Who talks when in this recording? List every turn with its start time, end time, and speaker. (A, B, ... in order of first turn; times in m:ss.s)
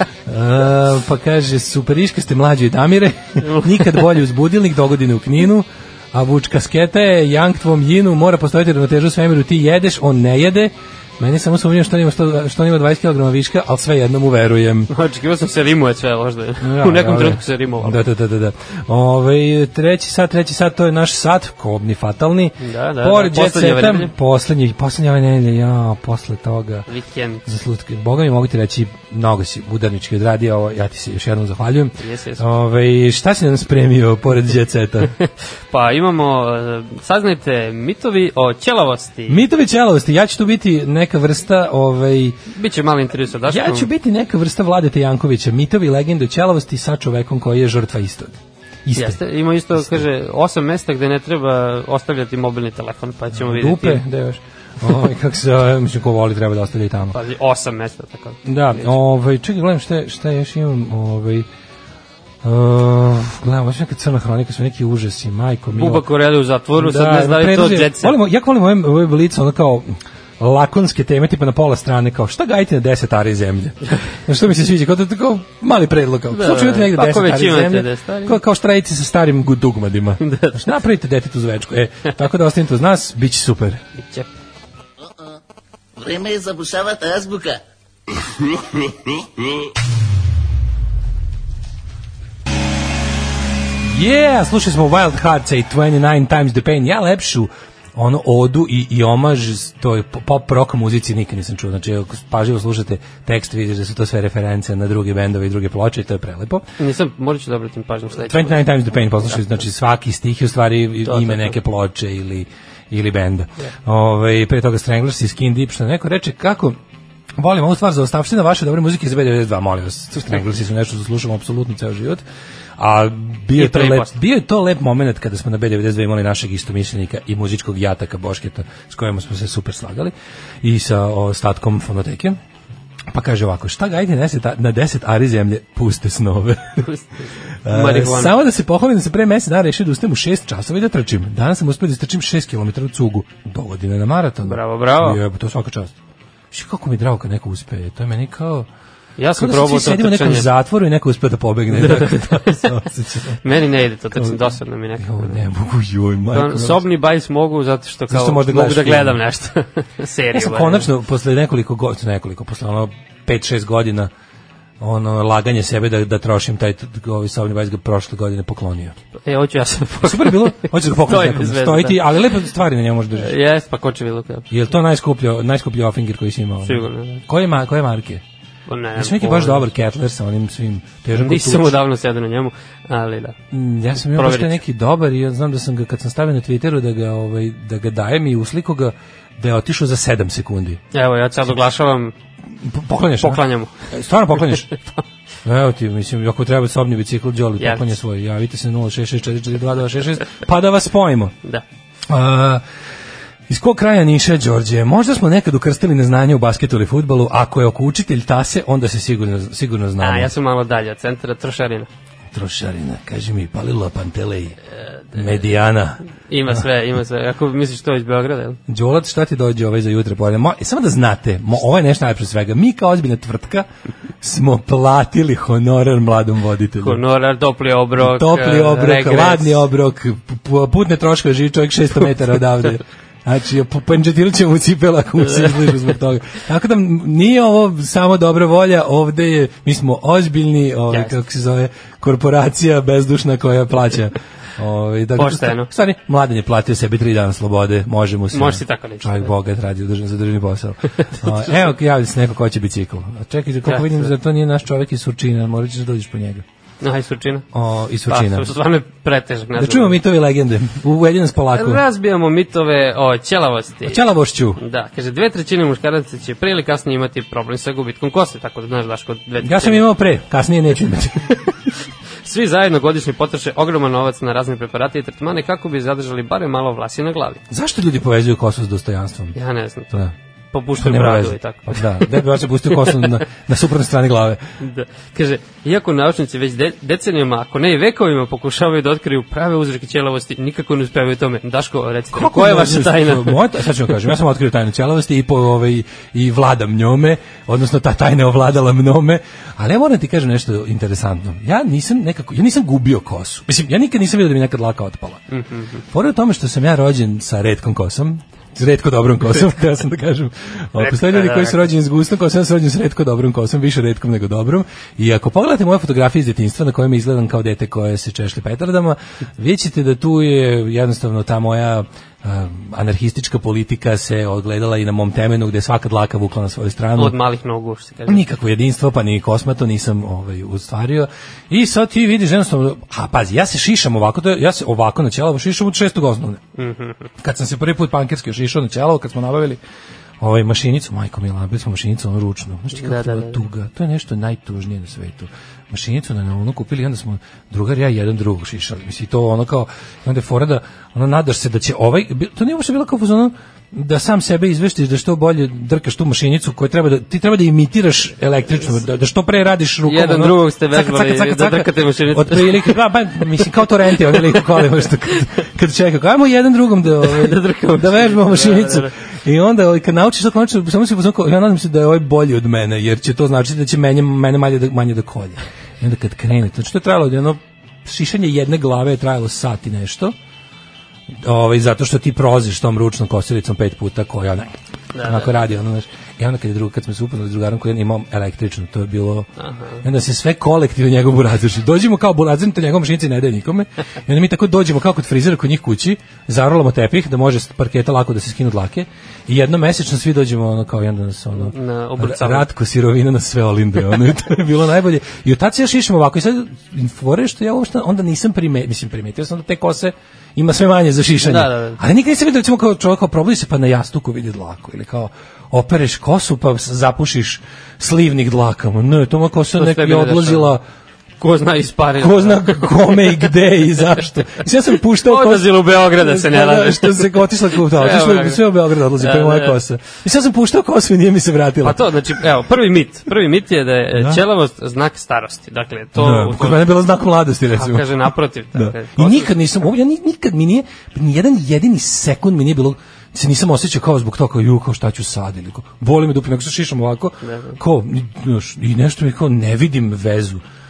0:00.2-0:14.9 A
0:03.4-0:04.1 B
0:14.9-0:18.0 B
0:16.6-0:26.8 A
0:22.6-0:24.1 B
0:26.9-0:27.5 B
0:27.4-0:35.1 A
0:32.0-0:32.4 B
0:35.2-0:39.4 B
0:39.3-0:42.4 A
0:42.5-0:43.9 B
0:43.4-0:49.2 A
0:48.9-0:54.0 B
0:49.7-0:50.0 A
0:53.3-0:57.2 A
0:57.1-0:58.9 B
0:58.4-1:01.5 A
1:02.4-1:06.0 A
1:05.7-1:08.2 B
1:06.8-1:23.8 A
1:16.3-1:18.4 B
1:20.2-1:20.6 B
1:24.0-1:24.3 B
1:25.0-1:25.3 C
1:26.0-1:27.6 C
1:33.8-1:46.6 A
1:46.8-1:49.4 B
1:48.2-1:56.8 A
1:51.0-1:51.5 B
1:57.4-2:02.2 A
2:02.8-2:12.4 A
2:03.5-2:04.1 B
2:13.1-2:16.8 A
2:16.8-2:18.3 B
2:17.6-2:25.9 A
2:24.4-2:25.2 B
2:26.5-2:28.7 A
2:29.2-2:30.5 B
2:29.4-2:33.4 A
2:31.7-2:32.7 B
2:33.4-2:35.4 B
2:34.1-2:36.8 A
2:36.3-2:40.9 B
2:38.1-2:39.2 A
2:40.3-2:44.1 A
2:44.8-2:48.9 A
2:49.2-2:52.0 B
2:50.0-2:53.4 A
2:53.2-2:54.5 B
2:54.5-2:58.2 A
2:56.6-2:57.2 B
2:58.7-2:59.7 B
2:59.0-3:01.8 A
3:01.1-3:03.4 B
3:03.5-3:10.8 A
3:04.1-3:04.6 B
3:10.9-3:12.1 B
3:12.6-3:14.7 A
3:13.2-3:13.7 B
3:15.4-3:21.3 A
3:17.6-3:17.9 B
3:22.1-3:22.6 A
3:23.5-3:30.3 A
3:30.0-3:31.9 B
3:32.3-3:34.6 A
3:35.1-3:35.5 B
3:35.1-3:36.6 A
3:36.3-3:38.6 B
3:38.7-3:43.7 A
3:44.2-3:47.0 A
3:46.8-3:49.6 B
3:48.0-4:16.4 A
4:00.9-4:01.1 B
4:05.2-4:05.7 B
4:08.3-4:09.3 B
4:11.1-4:11.6 B
4:13.6-4:14.1 B
4:16.8-4:17.4 B
4:17.5-4:18.5 A
4:18.1-4:20.0 B
4:19.6-4:21.8 A
4:21.5-4:24.0 B
4:23.8-4:24.6 A
4:24.6-4:29.9 B
4:29.4-4:31.3 A
4:32.2-4:37.4 B
4:37.5-4:39.4 A
4:39.3-4:40.0 B
4:40.5-4:42.2 B
4:40.8-4:44.4 A
4:44.6-4:53.4 B
4:52.1-5:05.2 A
5:05.3-5:05.8 B
5:05.9-5:27.2 A
5:10.8-5:11.6 B
5:27.0-5:28.2 B
5:28.0-5:36.4 A
5:36.6-5:37.1 B
5:37.2-5:39.6 A
5:40.2-6:20.1 A
5:42.8-5:43.4 B
5:59.8-6:02.8 B
6:04.1-6:04.3 B
6:07.0-6:08.9 B
6:21.1-6:29.3 A
6:24.9-6:25.3 B
6:29.4-6:29.8 B
6:29.8-7:00.6 A
6:41.4-6:42.5 B
6:51.2-6:51.8 B
6:59.6-7:00.5 B
7:01.2-7:03.2 B
7:02.0-7:11.9 A
7:05.0-7:08.4 B
7:09.0-7:09.6 B
7:11.6-7:16.7 B
7:13.9-7:14.2 A
7:15.9-7:30.4 A
7:17.5-7:19.3 B
7:27.2-7:27.6 B